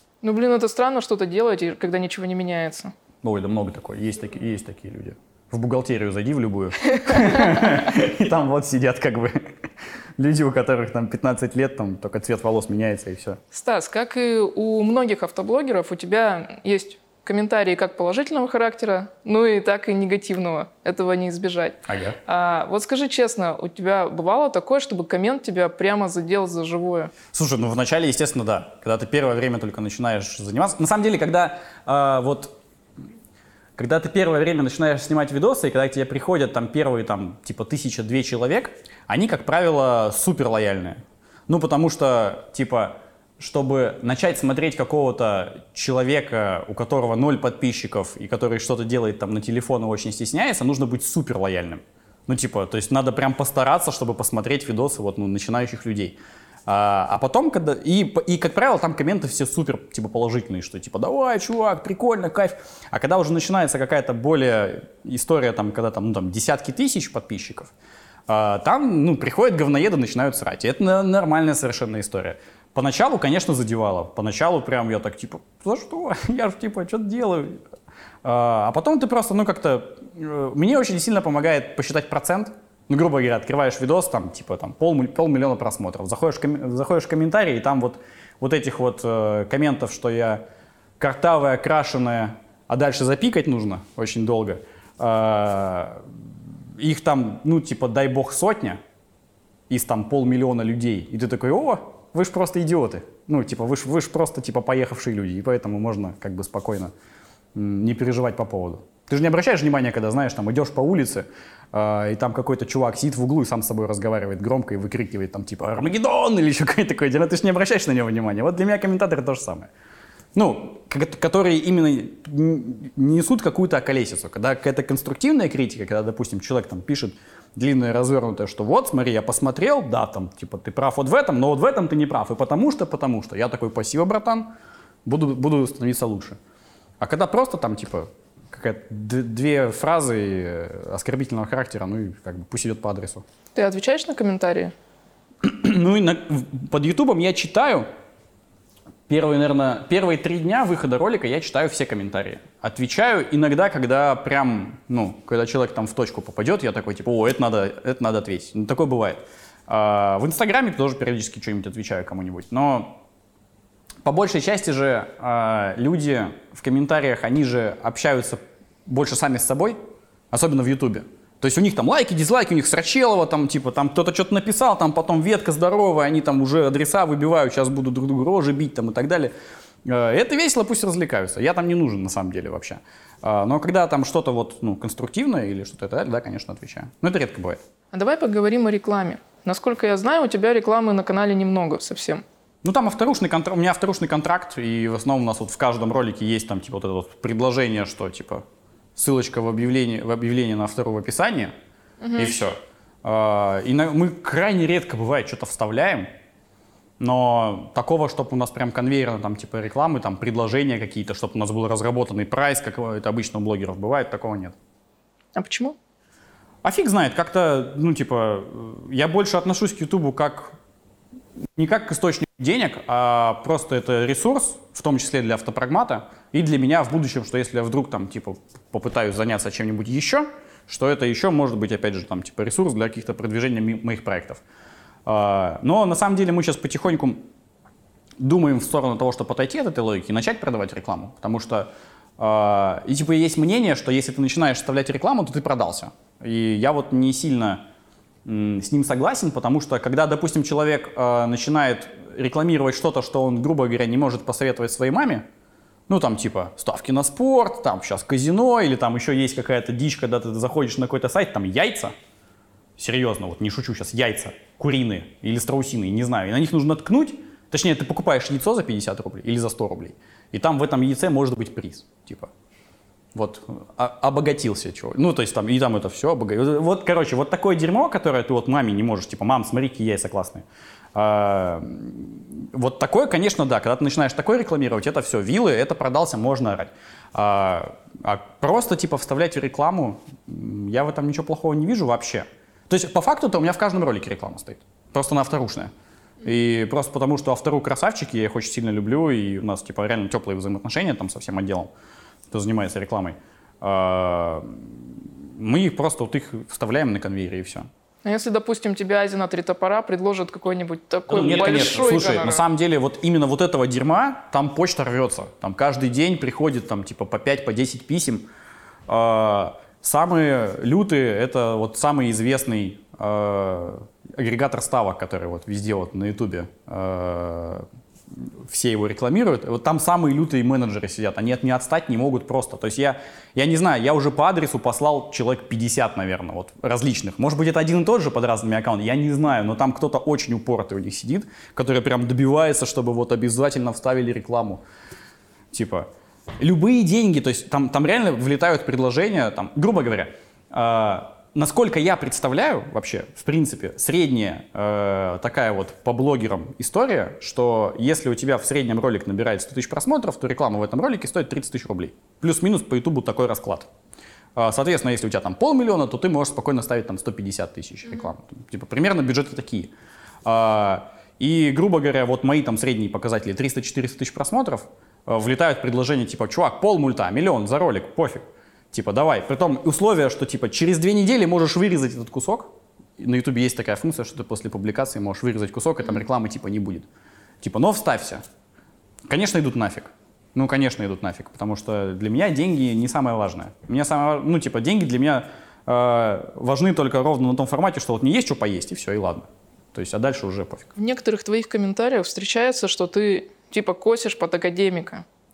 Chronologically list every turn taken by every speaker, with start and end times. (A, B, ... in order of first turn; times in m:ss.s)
0:00.2-0:02.9 A
0:03.2-0:09.5 B
0:07.0-0:07.8 A
0:10.2-0:13.4 B
0:13.5-0:27.1 A
0:21.9-0:22.2 B
0:27.3-0:32.5 B
0:33.8-1:07.7 B
1:08.3-1:17.6 B
1:18.2-1:30.4 B
1:31.0-1:36.0 B
1:36.8-1:38.8 B
1:39.7-1:46.9 B
1:47.6-1:59.7 B
2:00.4-2:14.5 B
2:15.0-2:16.4 B
2:17.0-2:23.2 B
2:23.6-2:24.7 A
2:25.4-2:27.9 B
2:29.1-2:43.0 B
2:44.0-2:49.8 B
2:50.3-2:59.3 B
2:59.9-3:07.6 B
3:07.9-3:12.2 A
3:12.6-3:18.4 B
3:19.0-3:21.5 B
3:22.0-3:22.4 A
3:22.2-3:26.1 B
3:27.0-3:34.6 B
3:35.4-3:35.8 A
3:36.6-3:40.6 B
3:41.6-3:54.4 B
3:55.1-3:57.2 B
3:58.2-4:07.6 B
4:08.3-4:15.3 B
4:15.9-4:21.9 B
4:22.8-4:32.3 B
4:33.2-4:55.7 B
4:56.2-5:01.7 B
5:02.3-5:04.8 B
5:05.3-5:07.7 B
5:08.0-5:12.4 A
5:11.1-5:18.3 B
5:18.9-5:27.6 B
5:28.5-5:44.6 B
5:45.5-5:45.9 B
5:46.4-6:03.7 B
6:04.4-6:09.7 B
6:10.2-6:26.9 B
6:27.4-6:28.2 B
6:29.1-6:40.7 B
6:40.8-6:45.0 A